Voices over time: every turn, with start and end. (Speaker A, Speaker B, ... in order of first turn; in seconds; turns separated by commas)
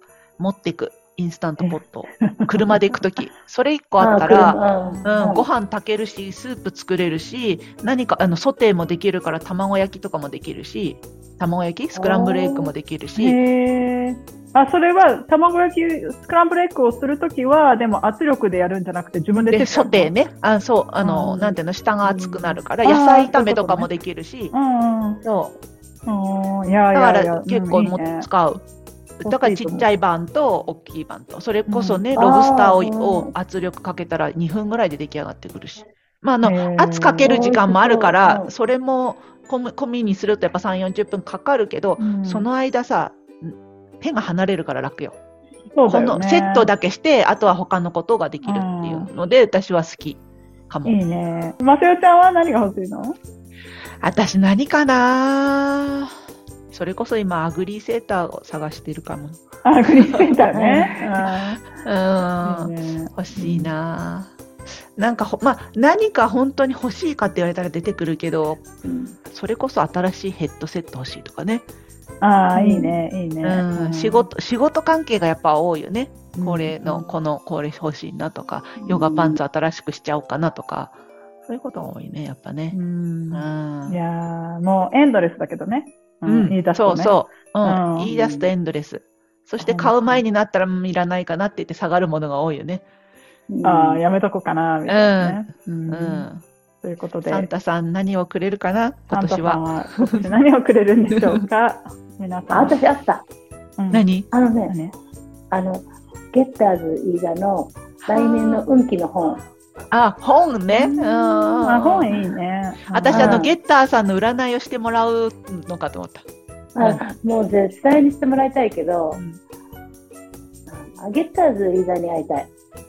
Speaker A: 0.4-13.4, Speaker B: 1.6-3.0, Speaker C: 4.0-5.4, Speaker B: 4.8-5.2, Speaker C: 11.9-12.7, Speaker B: 13.2-20.1, Speaker A: 19.3-24.5, Speaker B: 21.0-23.9, Speaker B: 24.5-25.2, Speaker A: 25.2-25.6, Speaker B: 26.1-28.3, Speaker A: 26.9-28.6, Speaker A: 29.2-45.1, Speaker B: 29.2-29.9, Speaker B: 31.7-32.0, Speaker C: 32.1-33.3, Speaker B: 36.4-37.4, Speaker C: 37.2-38.5, Speaker B: 42.0-42.5, Speaker B: 45.7-46.7, Speaker A: 45.9-51.0, Speaker B: 48.4-49.1, Speaker B: 50.8-53.2, Speaker A: 54.0-56.2, Speaker A: 56.7-60.4, Speaker B: 59.6-61.8, Speaker C: 60.5-61.0, Speaker A: 61.3-68.7, Speaker B: 62.4-63.7, Speaker C: 68.8-69.2, Speaker A: 69.2-71.6, Speaker B: 72.2-74.3, Speaker C: 72.5-73.0, Speaker A: 73.4-80.9, Speaker B: 76.3-77.0, Speaker C: 78.8-79.4, Speaker A: 81.5-82.8, Speaker B: 82.7-88.2, Speaker A: 83.3-84.0, Speaker A: 86.2-92.8, Speaker C: 88.1-88.4, Speaker B: 89.6-90.2, Speaker C: 93.5-94.0, Speaker B: 93.6-96.3, Speaker A: 94.9-96.4, Speaker B: 96.8-97.5, Speaker A: 97.3-100.3, Speaker B: 99.1-102.8, Speaker A: 101.1-101.4, Speaker C: 102.5-103.2, Speaker B: 103.8-104.1, Speaker A: 103.9-104.3, Speaker C: 104.3-104.7, Speaker B: 104.7-104.9, Speaker C: 105.5-109.4, Speaker A: 108.0-108.6, Speaker A: 109.9-112.1, Speaker B: 110.7-113.4, Speaker A: 112.9-116.2, Speaker C: 113.1-113.5, Speaker C: 116.8-119.2, Speaker A: 119.1-119.4, Speaker C: 120.7-122.5